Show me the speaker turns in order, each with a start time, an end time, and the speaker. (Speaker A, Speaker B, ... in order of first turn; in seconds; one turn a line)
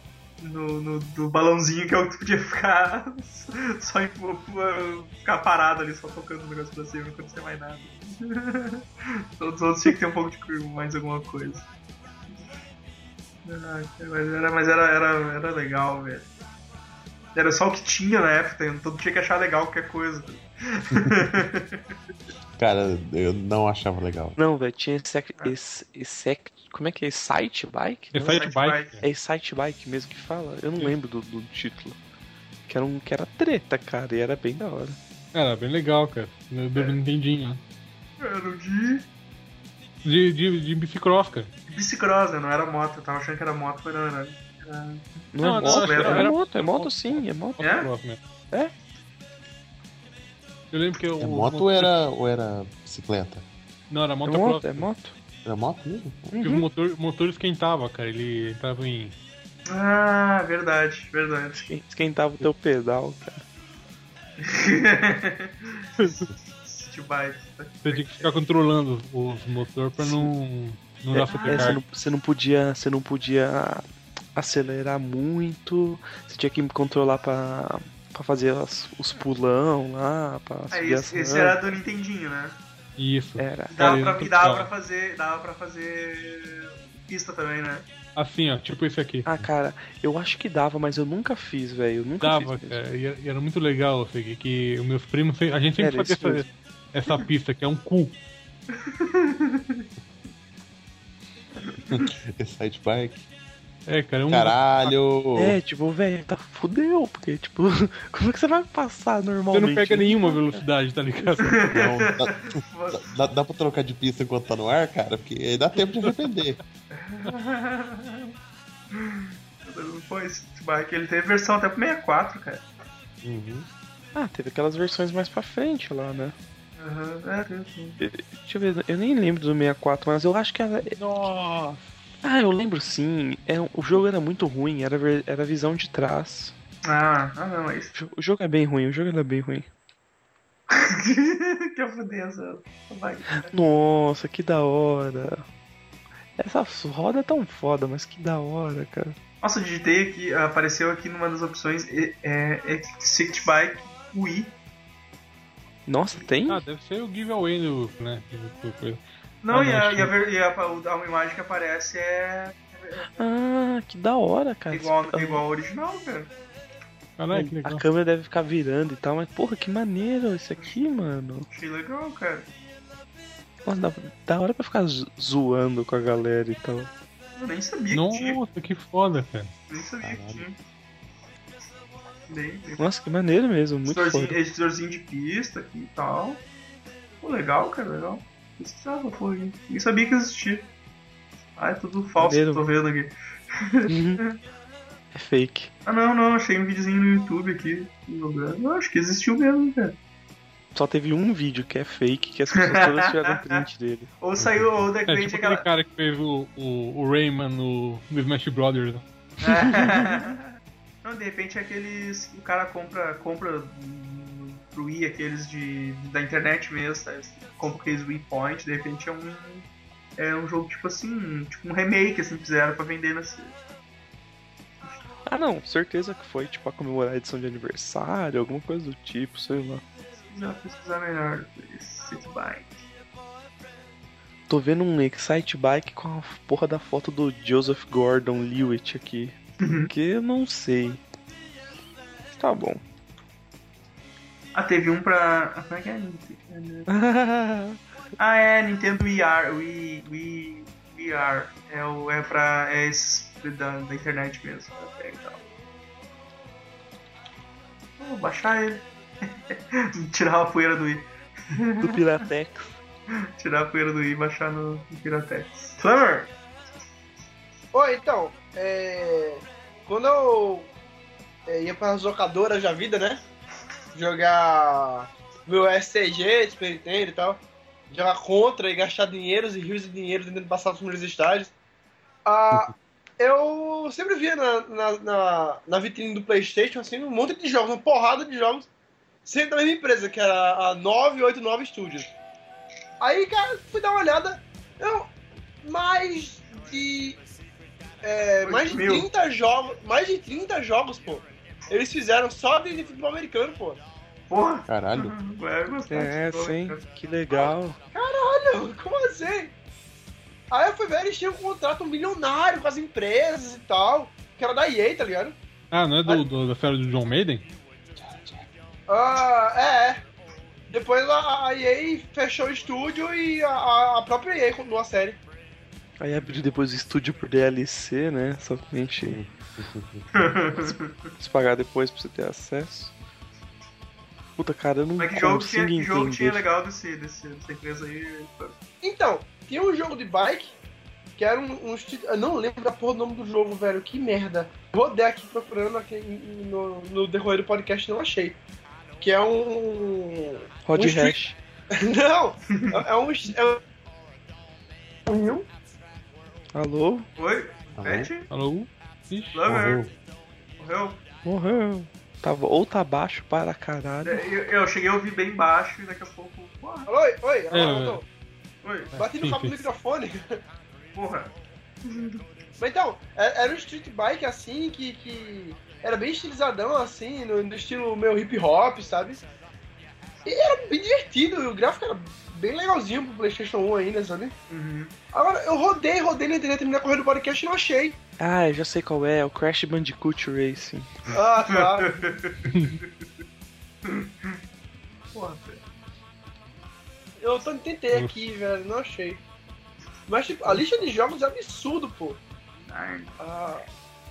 Speaker A: 0.4-8.8
Speaker A: 9.4-11.7
Speaker A: 13.4-16.3
Speaker A: 17.4-21.8
Speaker B: 22.6-24.4
Speaker C: 24.4-28.2
Speaker D: 28.1-29.0
Speaker A: 28.2-29.0
Speaker C: 29.0-32.0
Speaker C: 32.7-35.0
Speaker D: 35.3-37.6
Speaker A: 38.2-39.1
Speaker D: 40.0-41.5
Speaker A: 41.7-45.0
Speaker C: 45.3-47.6
Speaker D: 45.4-48.2
Speaker A: 45.6-46.3
Speaker A: 47.6-47.9
Speaker D: 50.7-51.9
Speaker B: 51.2-53.5
Speaker D: 53.9-54.9
Speaker C: 54.2-55.1
Speaker B: 55.5-56.2
Speaker C: 56.3-56.6
Speaker D: 56.4-59.2
Speaker A: 59.7-61.7
Speaker C: 61.6-63.4
Speaker A: 64.4-68.3
Speaker D: 67.8-71.8
Speaker C: 70.0-70.3
Speaker C: 71.1-73.8
Speaker A: 71.2-71.8
Speaker C: 74.3-81.6
Speaker A: 80.7-82.6
Speaker D: 83.0-84.7
Speaker C: 83.4-83.9
Speaker A: 83.7-87.9
Speaker D: 88.2-89.5
Speaker C: 89.2-92.8
Speaker D: 92.2-98.2
Speaker C: 95.8-96.5
Speaker A: 98.7-99.8
Speaker A: 101.6-102.1
Speaker B: 101.9-103.3
Speaker D: 103.9-105.0
Speaker B: 104.3-105.6
Speaker C: 105.4-110.6
Speaker D: 109.5-111.6
Speaker A: 111.4-113.1
Speaker B: 111.7-116.6
Speaker A: 116.9-118.3
Speaker A: 118.9-122.6
Speaker B: 123.2-123.7
Speaker C: 124.1-126.3
Speaker A: 126.8-128.0
Speaker C: 128.0-130.9
Speaker D: 130.9-131.9
Speaker C: 132.2-136.6
Speaker A: 136.8-137.9
Speaker C: 137.9-139.7
Speaker A: 140.7-143.5
Speaker C: 143.5-145.4
Speaker C: 146.4-149.2
Speaker A: 149.4-154.5
Speaker C: 155.9-156.6
Speaker D: 156.5-160.1
Speaker A: 159.4-163.0
Speaker C: 163.2-165.4
Speaker A: 164.7-166.3
Speaker D: 167.2-167.8
Speaker C: 167.3-171.5
Speaker A: 171.5-172.5
Speaker C: 173.7-176.9
Speaker A: 177.4-178.4
Speaker D: 177.9-179.5
Speaker A: 179.7-180.6
Speaker B: 180.0-180.5
Speaker A: 182.3-182.8
Speaker C: 182.8-184.4
Speaker A: 183.9-186.4
Speaker A: 187.2-190.7
Speaker A: 191.6-194.4
Speaker C: 192.2-192.6
Speaker C: 193.9-194.2
Speaker C: 195.1-195.7
Speaker A: 195.9-199.9
Speaker C: 200.8-204.1
Speaker A: 202.6-203.6
Speaker A: 204.2-205.6
Speaker B: 204.4-204.9
Speaker D: 205.1-209.0
Speaker A: 209.4-210.4
Speaker D: 209.7-210.1
Speaker A: 211.0-223.5
Speaker C: 225.3-229.8
Speaker A: 230.1-232.8
Speaker C: 234.5-239.3
Speaker A: 239.6-239.9
Speaker C: 239.9-241.0
Speaker C: 242.3-242.8
Speaker A: 244.5-246.9
Speaker C: 246.9-247.8
Speaker A: 248.2-255.4
Speaker A: 258.0-258.9
Speaker A: 259.5-262.0
Speaker C: 261.8-262.8
Speaker A: 263.4-266.3
Speaker E: 267.7-270.7
Speaker E: 271.5-273.2
Speaker E: 273.9-281.5
Speaker E: 282.2-288.7
Speaker E: 289.2-292.1
Speaker E: 293.0-295.1
Speaker E: 295.6-297.2
Speaker E: 298.0-303.8
Speaker A: 298.4-299.1
Speaker A: 304.3-306.8
Speaker B: 304.7-305.2
Speaker C: 305.9-307.8
Speaker E: 307.4-309.5
Speaker E: 310.5-315.4
Speaker D: 315.7-317.4
Speaker B: 318.1-318.4
Speaker E: 318.9-320.0
Speaker E: 320.7-325.2
Speaker C: 326.0-329.2
Speaker B: 329.0-330.2
Speaker A: 330.1-331.1
Speaker C: 331.2-332.9
Speaker C: 334.4-336.4
Speaker A: 335.0-338.6
Speaker E: 338.8-340.6
Speaker E: 341.2-348.4
Speaker E: 349.0-351.2
Speaker C: 350.7-351.4
Speaker E: 351.7-353.6
Speaker A: 352.5-352.9
Speaker E: 355.1-355.4
Speaker C: 356.6-357.1
Speaker A: 357.2-358.3
Speaker B: 357.8-358.1
Speaker D: 358.3-359.9
Speaker A: 359.3-359.9
Speaker A: 360.6-361.0
Speaker C: 361.2-364.2
Speaker A: 364.0-366.9
Speaker E: 366.9-368.1
Speaker D: 367.5-368.0
Speaker A: 368.6-368.9
Speaker D: 368.9-369.6
Speaker E: 368.9-370.4
Speaker A: 370.9-371.3
Speaker A: 371.9-372.2
Speaker E: 372.6-379.2
Speaker E: 380.2-384.3
Speaker A: 384.5-384.9
Speaker E: 385.1-387.9
Speaker C: 388.2-390.9
Speaker E: 391.1-392.0
Speaker A: 391.5-392.9
Speaker D: 392.4-392.8
Speaker A: 393.9-394.4
Speaker A: 395.1-395.6
Speaker E: 397.2-399.2
Speaker D: 397.9-398.3
Speaker E: 400.1-402.2
Speaker A: 402.7-403.1
Speaker E: 403.2-403.6